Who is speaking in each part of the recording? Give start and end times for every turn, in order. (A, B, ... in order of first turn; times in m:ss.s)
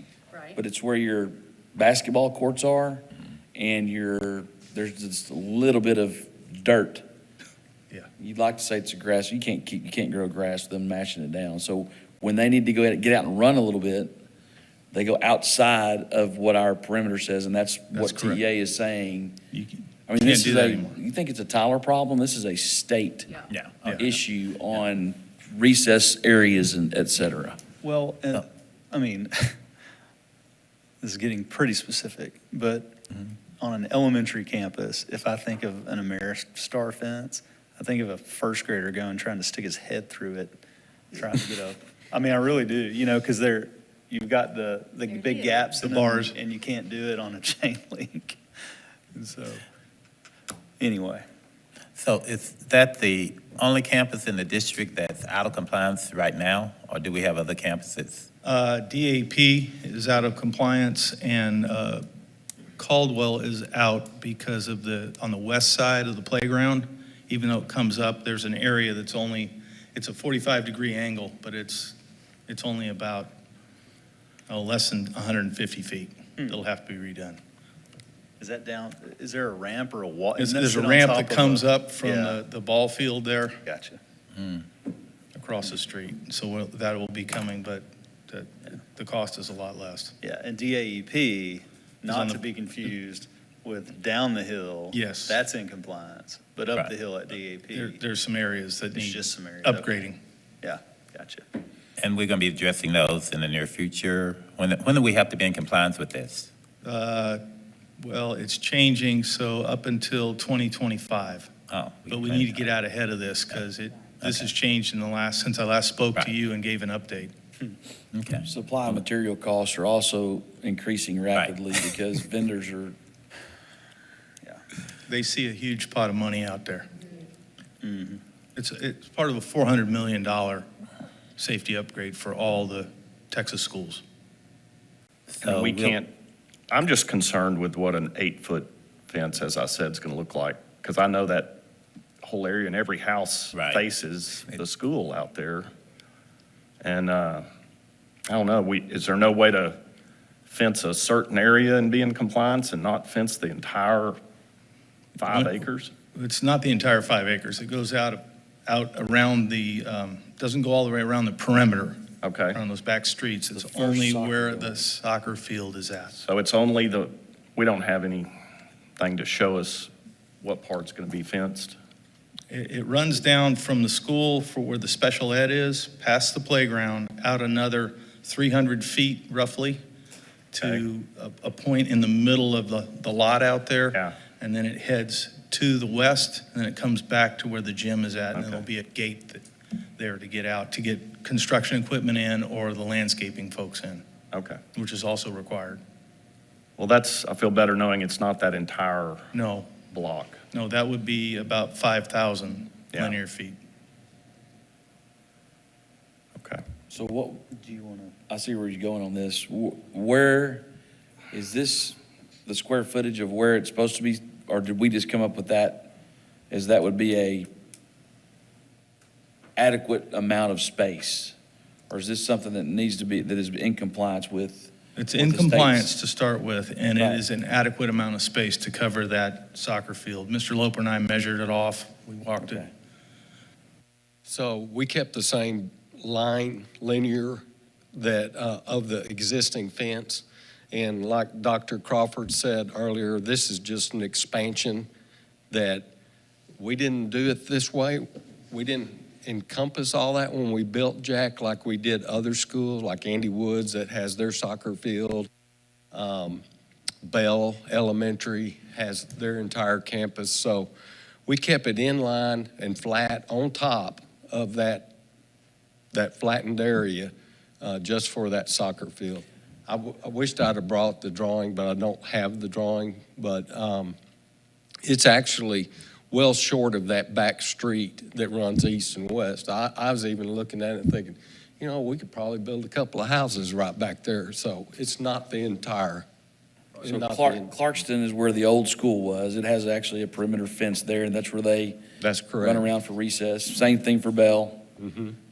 0:00.5-0:03.0 A
0:03.6-0:07.0 A
0:08.2-0:14.2 A
0:14.9-0:19.4 A
0:17.9-0:18.4 B
0:19.5-0:21.0 B
0:20.1-0:23.4 A
0:23.5-0:24.0 C
0:23.9-0:27.6 A
0:27.8-0:29.6 D
0:31.0-0:33.0 D
0:33.5-0:40.6 D
0:41.1-0:48.4 D
0:45.8-0:46.4 B
0:49.1-0:49.6 D
0:50.8-0:51.2 D
0:52.0-0:58.2 C
0:58.4-1:02.0 B
1:02.8-1:12.0 B
1:12.5-1:13.3 B
1:14.5-1:17.4 B
1:18.4-1:22.4 D
1:20.4-1:23.6 B
1:23.6-1:24.0 D
1:25.4-1:30.1 B
1:30.2-1:38.0 D
1:32.1-1:32.4 B
1:34.9-1:35.4 B
1:37.7-1:40.2 B
1:38.9-1:40.1 D
1:40.6-1:41.5 D
1:42.0-1:46.5 C
1:46.8-1:47.4 B
1:48.0-1:51.5 B
1:51.7-1:52.6 C
1:52.1-1:57.3 B
1:54.2-1:54.5 C
1:58.1-1:59.0 C
1:58.5-2:03.0 A
2:05.1-2:06.9 B
2:07.8-2:08.2 D
2:08.6-2:10.7 B
2:11.4-2:14.0 B
2:15.4-2:16.0 C
2:15.4-2:16.1 E
2:16.7-2:21.6 E
2:22.2-2:25.7 E
2:23.5-2:23.8 C
2:26.8-2:27.5 E
2:28.3-2:29.8 E
2:30.5-2:34.2 E
2:35.2-2:35.9 E
2:35.3-2:35.6 B
2:36.1-2:46.2 B
2:42.2-2:42.6 E
2:43.5-2:44.8 A
2:46.2-2:48.3 E
2:49.0-2:51.8 E
2:52.5-2:59.8 B
3:00.5-3:09.4 B
3:04.0-3:04.2 E
3:08.4-3:08.6 E
3:10.0-3:14.0 B
3:14.3-3:14.6 E
3:14.7-3:15.8 B
3:16.8-3:19.3 E
3:19.3-3:19.9 B
3:19.9-3:20.4 E
3:20.5-3:23.6 B
3:26.4-3:26.6 E
3:26.9-3:27.5 A
3:27.5-3:28.1 D
3:28.3-3:30.7 A
3:31.3-3:35.9 A
3:36.5-3:37.5 A
3:39.6-3:41.4 A
3:41.9-3:45.9 A
3:45.0-3:52.7 B
3:46.9-3:47.2 A
3:54.3-3:57.4 F
3:57.9-4:04.9 F
4:05.5-4:05.9 F
4:06.6-4:15.3 F
4:15.9-4:16.4 F
4:17.0-4:20.7 F
4:21.3-4:24.9 F
4:25.9-4:34.0 F
4:34.8-4:46.1 F
4:46.8-4:47.5 F
4:46.8-4:51.8 A
4:52.0-4:52.7 F
4:52.4-4:54.7 A
4:54.8-4:55.2 F